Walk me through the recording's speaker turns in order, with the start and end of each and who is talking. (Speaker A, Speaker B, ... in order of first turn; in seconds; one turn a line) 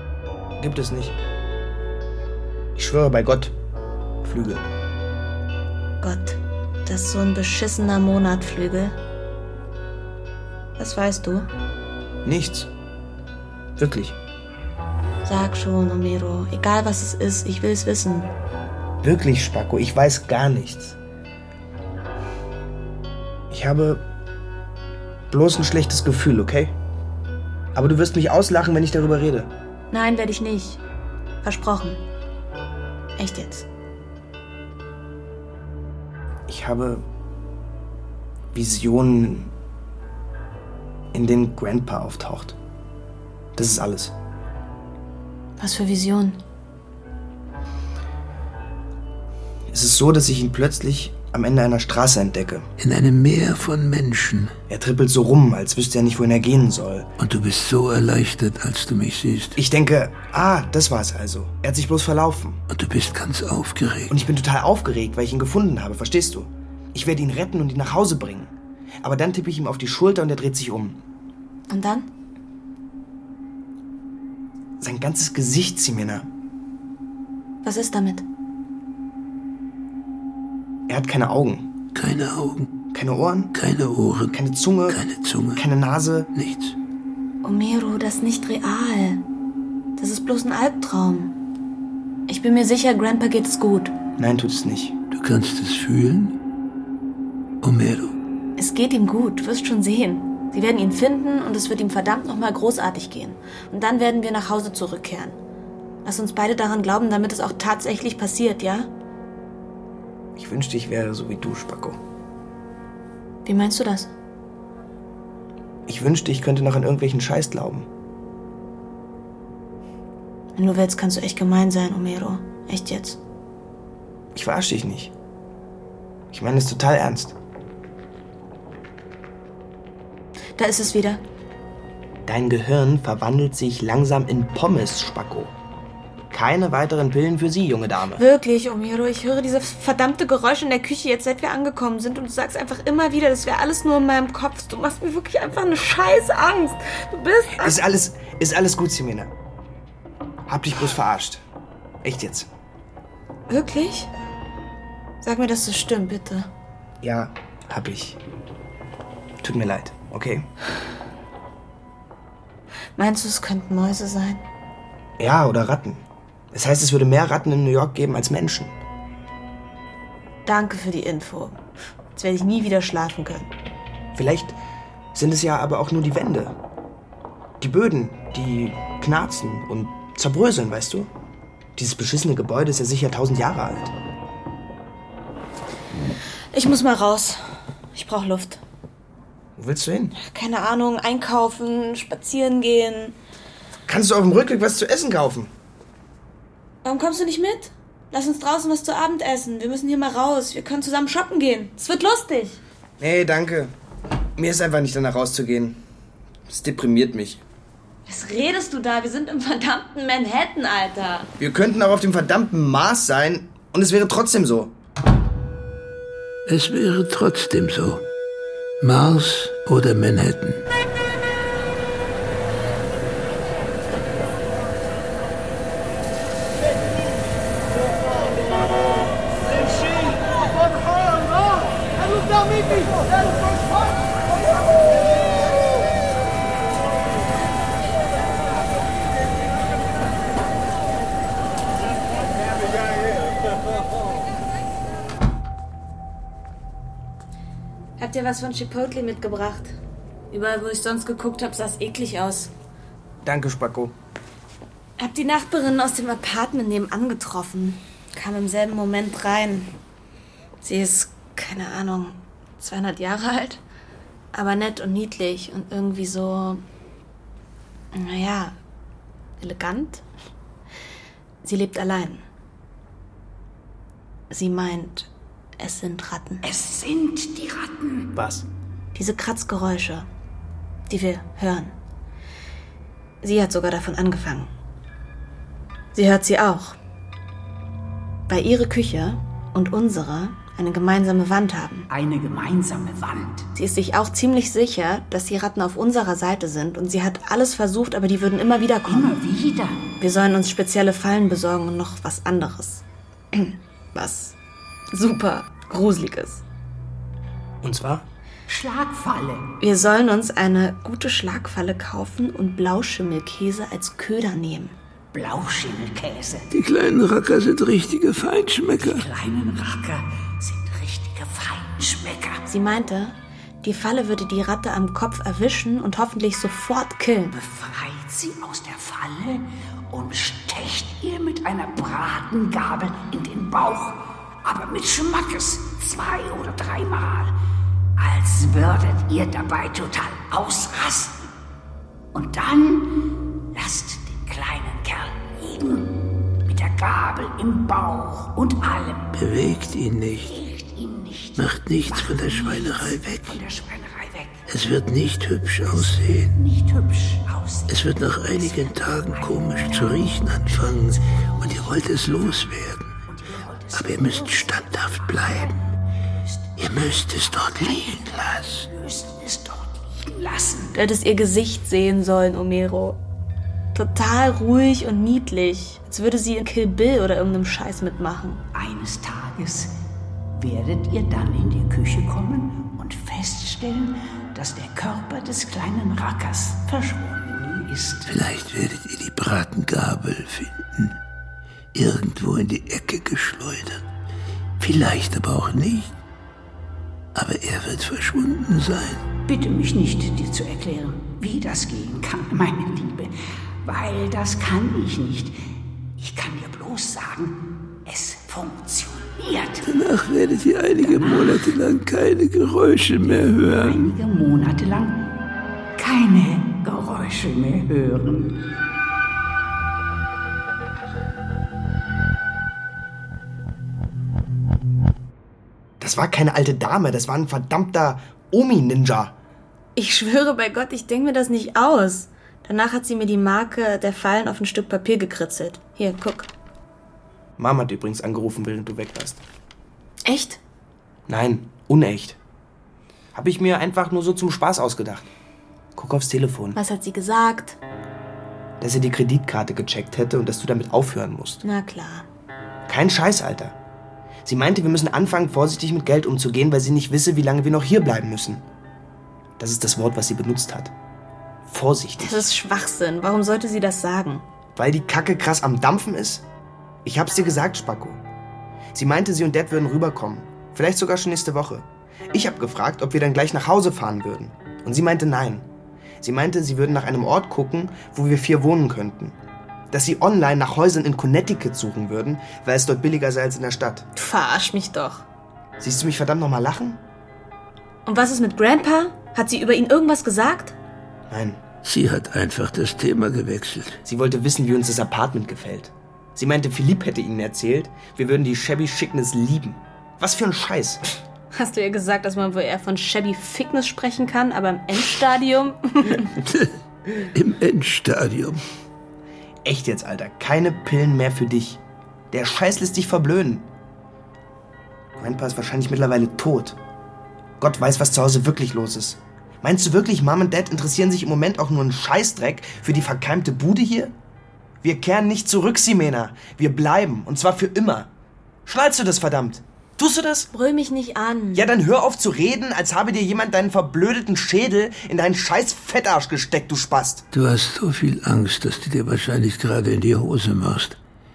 Speaker A: 0.6-1.1
Speaker A: 2.8-3.5
Speaker A: 4.2-4.6
Speaker B: 6.0-8.9
Speaker B: 10.8-11.5
Speaker A: 12.2-12.7
Speaker A: 13.8-14.2
Speaker B: 15.2-18.3
Speaker A: 19.0-20.9
Speaker A: 23.5-24.0
Speaker A: 25.3-26.7
Speaker A: 27.7-29.5
Speaker B: 29.9-30.8
Speaker B: 31.4-32.0
Speaker B: 33.2-33.7
Speaker A: 36.5-37.0
Speaker A: 38.5-39.5
Speaker A: 41.1-42.5
Speaker A: 43.5-44.1
Speaker B: 45.6-46.4
Speaker A: 49.7-52.7
Speaker C: 52.8-54.5
Speaker A: 54.7-57.1
Speaker C: 57.2-59.6
Speaker A: 59.6-62.6
Speaker C: 62.7-64.1
Speaker A: 64.1-71.0
Speaker B: 71.7-72.1
Speaker A: 74.8-76.3
Speaker B: 77.6-78.2
Speaker A: 80.9-81.6
Speaker C: 81.9-82.7
Speaker A: 82.9-83.5
Speaker C: 83.5-84.4
Speaker A: 84.3-85.0
Speaker C: 84.9-85.6
Speaker A: 85.5-86.3
Speaker C: 86.3-86.7
Speaker B: 87.4-89.2
Speaker B: 90.0-91.3
Speaker B: 92.3-93.9
Speaker A: 94.2-95.0
Speaker C: 95.1-96.4
Speaker C: 97.6-98.1
Speaker B: 98.6-105.3
Speaker B: 106.0-108.9
Speaker A: 110.4-112.0
Speaker B: 113.4-114.1
Speaker A: 115.9-117.9
Speaker B: 120.5-123.2
Speaker A: 124.3-125.1
Speaker A: 126.3-127.3
Speaker B: 130.6-131.2
Speaker A: 132.2-135.5
Speaker A: 136.3-138.2
Speaker B: 138.2-147.8
Speaker A: 147.5-149.3
Speaker A: 150.5-151.4
Speaker A: 152.0-152.5
Speaker B: 153.5-154.1
Speaker B: 155.2-156.5
Speaker A: 157.0-158.2
Speaker A: 159.4-160.5
Speaker B: 163.0-164.4
Speaker A: 165.2-168.7
Speaker B: 170.4-171.6
Speaker B: 172.1-173.5
Speaker A: 174.1-174.6
Speaker A: 175.1-176.6
Speaker A: 177.6-181.1
Speaker A: 181.8-183.9
Speaker B: 186.5-187.4
Speaker B: 187.9-188.6
Speaker A: 189.6-190.1
Speaker B: 190.2-193.2
Speaker A: 193.9-195.5
Speaker B: 196.8-202.6
Speaker A: 203.0-203.7
Speaker A: 204.4-205.8
Speaker A: 206.5-207.4
Speaker B: 208.1-211.3
Speaker A: 211.4-214.7
Speaker C: 216.4-218.1
Speaker C: 218.8-220.6
Speaker B: 248.0-249.7
Speaker B: 250.3-252.5
Speaker A: 253.2-253.9
Speaker B: 255.0-259.7
Speaker B: 260.6-263.6
Speaker B: 264.3-266.6
Speaker B: 267.9-268.6
Speaker B: 269.4-270.0
Speaker B: 271.4-272.2
Speaker B: 274.3-276.4
Speaker D: 276.4-278.1
Speaker A: 278.1-278.4
Speaker B: 278.9-280.1
Speaker B: 280.9-281.7
Speaker B: 283.2-284.5
Speaker B: 285.9-286.8
Speaker B: 288.3-291.9
Speaker D: 291.9-293.5
Speaker B: 293.5-299.1
Speaker D: 298.9-299.9
Speaker B: 300.0-304.4
Speaker B: 304.9-306.4
Speaker A: 307.6-308.1
Speaker D: 308.5-309.5
Speaker B: 309.6-314.7
Speaker D: 315.1-316.5
Speaker C: 316.5-319.1
Speaker D: 318.8-322.4
Speaker B: 322.5-327.3
Speaker D: 327.3-337.3
Speaker D: 338.0-341.3
Speaker D: 342.1-349.1
Speaker C: 349.1-350.4
Speaker D: 350.2-354.4
Speaker C: 351.4-353.4
Speaker C: 354.5-356.4
Speaker D: 355.6-361.8
Speaker C: 357.7-363.0
Speaker D: 363.1-370.8
Speaker C: 363.7-365.5
Speaker C: 366.6-368.7
Speaker B: 370.7-373.0
Speaker B: 373.7-378.4
Speaker D: 378.5-379.7
Speaker D: 380.4-388.1
Speaker C: 388.1-391.0
Speaker C: 391.7-393.8
Speaker C: 394.6-395.9
Speaker C: 397.1-399.1
Speaker D: 399.2-403.1
Speaker D: 403.6-405.3
Speaker D: 406.0-409.6
Speaker C: 409.6-413.9
Speaker D: 410.8-411.6
Speaker D: 413.1-415.1
Speaker D: 415.8-418.5
Speaker A: 425.8-429.1
Speaker B: 429.8-436.3
Speaker A: 437.4-439.2
Speaker B: 440.0-440.4
Speaker A: 441.1-442.2
Speaker A: 443.1-445.1
Speaker A: 445.8-446.6
Speaker B: 446.5-447.6
Speaker A: 448.6-451.4
Speaker B: 451.4-452.1
Speaker A: 452.7-453.6
Speaker A: 454.2-458.4
Speaker A: 459.4-460.7
Speaker A: 461.4-462.3
Speaker B: 462.0-464.2
Speaker A: 464.6-466.2
Speaker A: 466.9-468.0
Speaker A: 468.7-475.5
Speaker A: 476.0-479.1
Speaker A: 479.7-483.9
Speaker B: 483.9-485.0
Speaker A: 485.6-486.8
Speaker B: 487.9-490.6
Speaker A: 491.1-491.4
Speaker C: 491.6-493.8
Speaker A: 493.9-500.8
Speaker B: 501.3-506.2
Speaker C: 506.2-508.4
Speaker A: 509.4-511.6
Speaker A: 512.1-513.5
Speaker A: 515.0-516.6
Speaker A: 517.4-523.9
Speaker A: 524.6-527.9
Speaker A: 528.5-530.3
Speaker B: 530.3-531.5
Speaker A: 531.3-537.0
Speaker C: 537.1-540.8